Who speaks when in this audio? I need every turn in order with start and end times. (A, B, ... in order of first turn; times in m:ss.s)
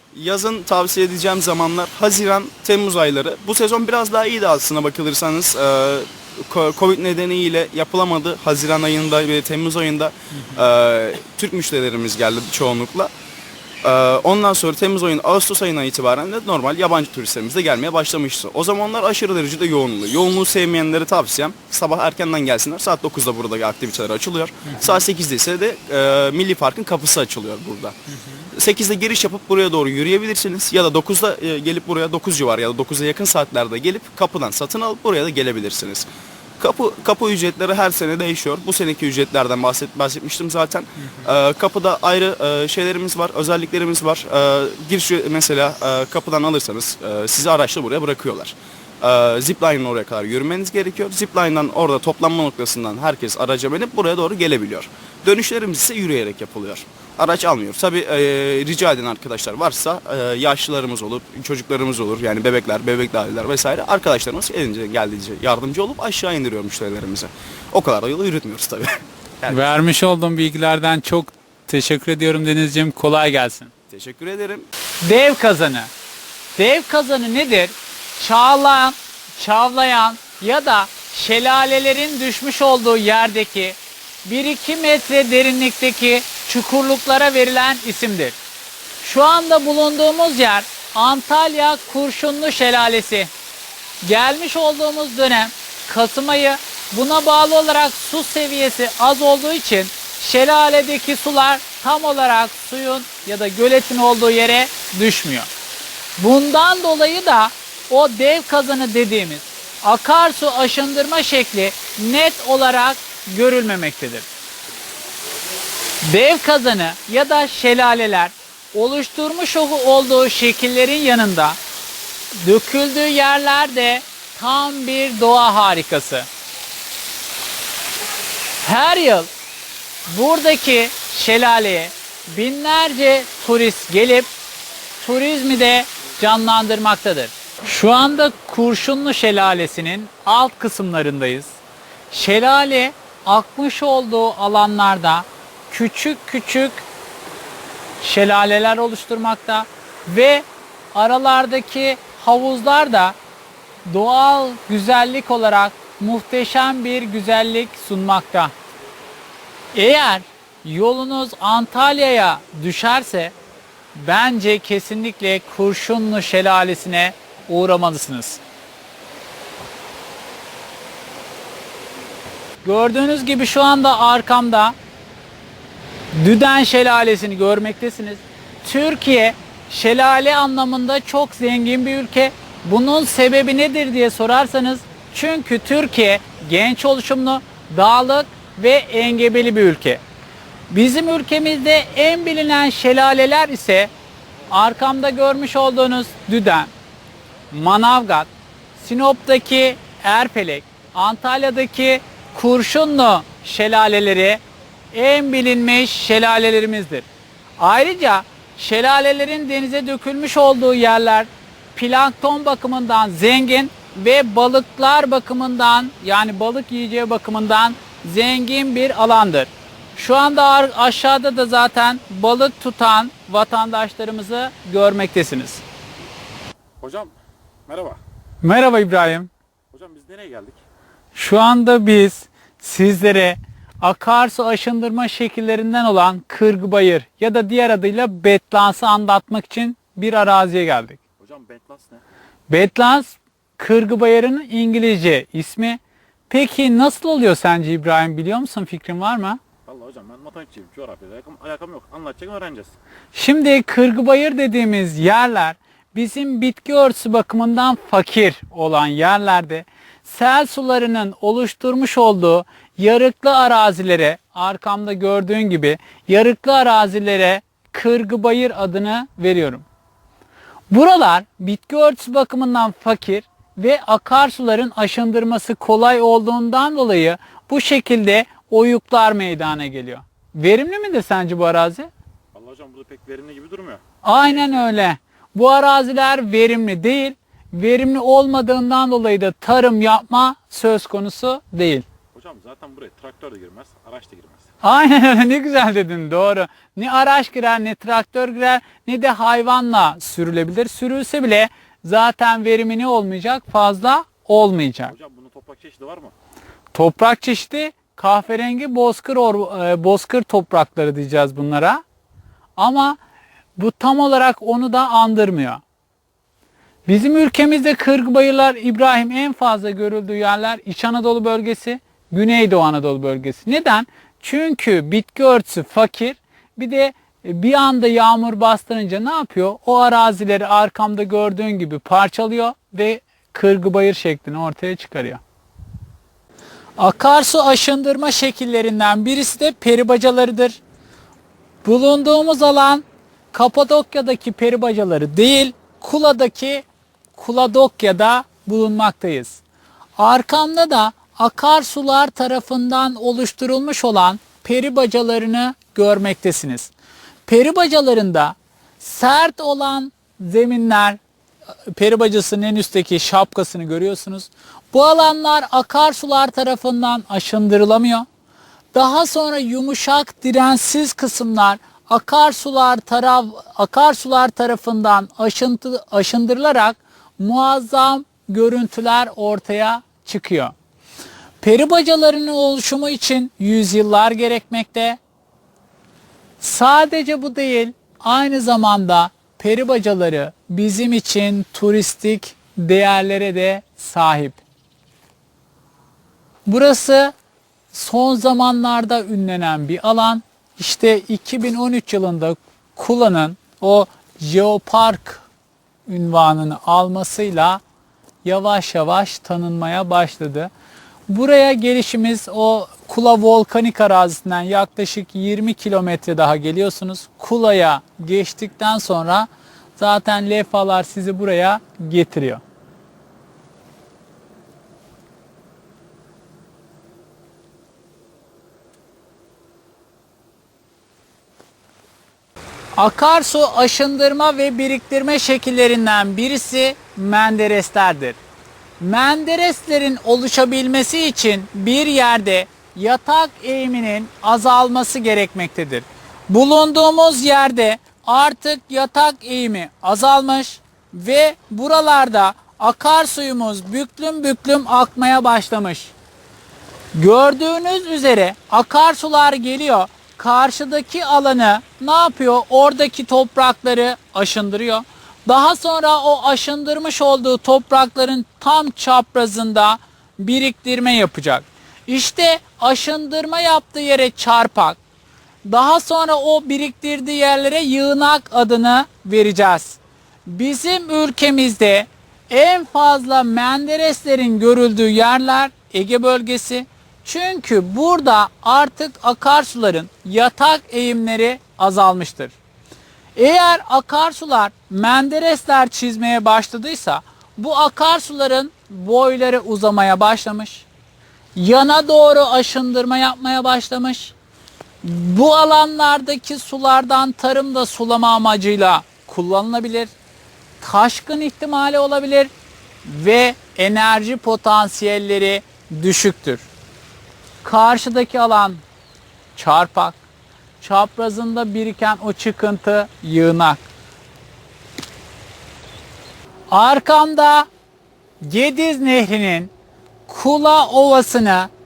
0:00.1-0:13.1 A
0:13.8-0:28.0 A
0:24.6-0:25.0 B
0:28.2-0:28.5 B
0:28.5-0:36.1 A
0:36.6-1:09.6 A
1:09.5-1:13.7 B
1:13.9-1:14.7 A
1:15.0-1:15.9 B
1:16.6-1:28.4 B
1:29.0-1:33.3 B
1:34.0-1:45.5 B
1:46.2-1:54.3 B
1:56.0-2:01.6 B
2:02.4-2:06.3 B
2:08.6-2:09.3 B
2:10.1-2:14.3 B
2:15.0-2:21.6 B
2:22.1-2:26.8 B
2:28.0-2:33.2 B
2:33.9-2:38.5 B
2:39.7-2:43.3 B
2:43.9-2:48.4 B
2:52.6-2:54.7 B
2:56.1-3:10.0 B
3:10.7-3:13.9 B
3:14.5-3:16.7 B
3:17.5-3:24.4 B
3:24.9-3:27.1 B
3:27.6-3:45.6 B
3:46.8-3:47.1 C
3:47.7-3:48.0 C
3:48.4-3:49.3 B
3:49.7-3:50.6 C
3:51.1-4:01.0 B
4:01.2-4:02.0 C
4:02.5-4:09.4 B
4:09.7-4:12.7 C
4:13.1-4:29.6 B
4:30.7-4:41.9 B
4:42.3-4:43.8 C
4:44.0-4:51.8 B
4:52.1-4:54.4 C
4:54.6-5:04.9 B
5:04.9-5:06.1 C
5:06.7-5:11.8 B
5:12.6-5:13.0 B
5:13.6-5:15.6 B
5:16.9-5:35.2 B
5:36.8-5:40.6 B
5:41.6-5:46.6 B
5:47.2-5:49.4 B
5:50.0-5:56.7 B
5:57.3-6:01.0 B
6:01.7-6:08.1 B
6:08.7-6:20.5 B
6:21.4-6:25.0 B
6:26.4-6:34.4 B
6:36.4-6:37.1 B
6:37.7-6:45.2 B
6:45.9-6:47.6 B
6:48.2-6:50.5 B
6:51.1-7:02.4 B
7:12.8-7:18.2 B
7:18.8-7:35.9 B
7:36.9-7:54.8 B
7:55.4-8:12.4 B
8:13.2-8:20.7 B
8:21.4-8:24.1 B
8:24.8-8:29.9 B
8:30.6-8:32.3 B
8:32.8-8:36.5 B
8:37.4-8:38.6 B
8:39.3-8:40.0 B
8:40.6-8:43.7 B
8:46.5-8:47.5 B
8:48.2-8:49.5 B
8:50.1-8:51.5 B